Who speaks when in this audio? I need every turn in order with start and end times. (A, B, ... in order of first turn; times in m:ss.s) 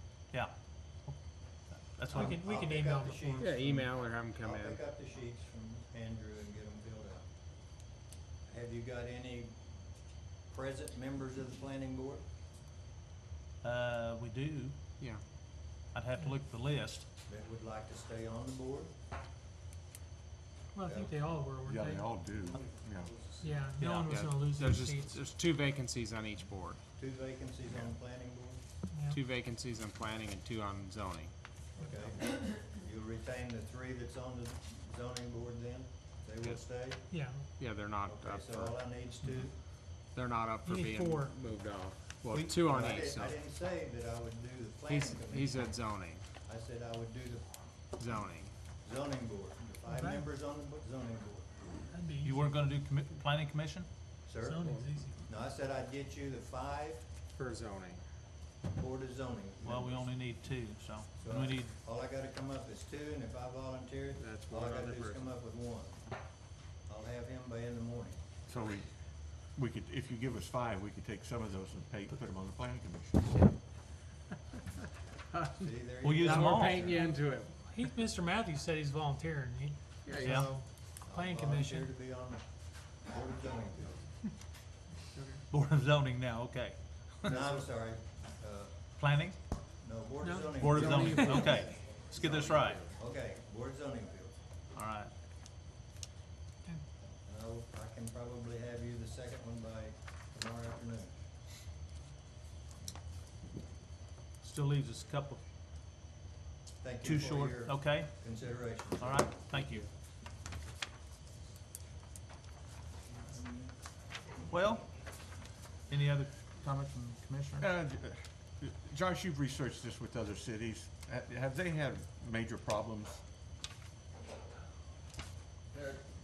0:00.3-0:02.4 A
0:02.1-0:03.8 B
0:02.1-0:07.2 C
0:03.4-0:04.8 D
0:08.5-0:09.4 C
0:10.5-0:12.2 C
0:13.6-0:14.8 A
0:15.8-0:17.0 A
0:17.3-0:18.9 C
0:20.7-0:22.2 B
0:20.8-0:21.1 C
0:21.6-0:23.3 E
0:23.4-0:25.2 B
0:23.8-0:24.1 A
0:24.0-0:26.8 D
0:27.0-0:28.6 C
0:28.9-0:29.2 B
0:29.1-0:31.3 D
0:31.8-0:37.0 C
0:36.4-0:36.8 D
0:37.1-0:37.5 B
0:37.6-0:38.9 D
0:38.0-0:39.6 C
0:40.1-0:43.5 D
0:40.6-0:41.3 B
0:42.3-0:45.5 C
0:44.9-0:46.2 D
0:46.4-0:47.5 C
0:48.0-0:48.5 D
0:48.8-0:51.5 C
0:49.8-0:50.3 B
0:51.9-0:52.5 B
0:52.2-0:53.9 A
0:54.2-0:54.7 C
0:54.4-0:55.2 B
0:55.2-0:57.0 C
0:57.3-0:58.0 D
0:58.7-1:00.0 C
0:59.6-1:01.7 A
1:01.2-1:06.0 C
1:04.2-1:05.4 D
1:06.8-1:08.2 C
1:08.5-1:13.4 E
1:15.3-1:17.6 D
1:15.6-1:17.2 C
1:16.0-1:16.9 A
1:16.7-1:22.0 B
1:20.0-1:20.5 D
1:20.2-1:20.5 A
1:20.2-1:22.4 C
1:23.0-1:24.0 C
1:25.1-1:25.4 D
1:25.5-1:27.6 A
1:27.2-1:28.7 C
1:29.0-1:29.4 A
1:29.8-1:34.3 C
1:30.2-1:31.9 B
1:30.6-1:32.8 A
1:34.7-1:35.1 A
1:37.2-1:41.1 C
1:44.4-1:45.4 A
1:46.8-1:49.6 C
1:47.0-1:49.9 A
1:54.5-1:54.9 A
1:55.9-1:57.7 A
1:57.6-2:03.2 E
2:05.7-2:06.0 C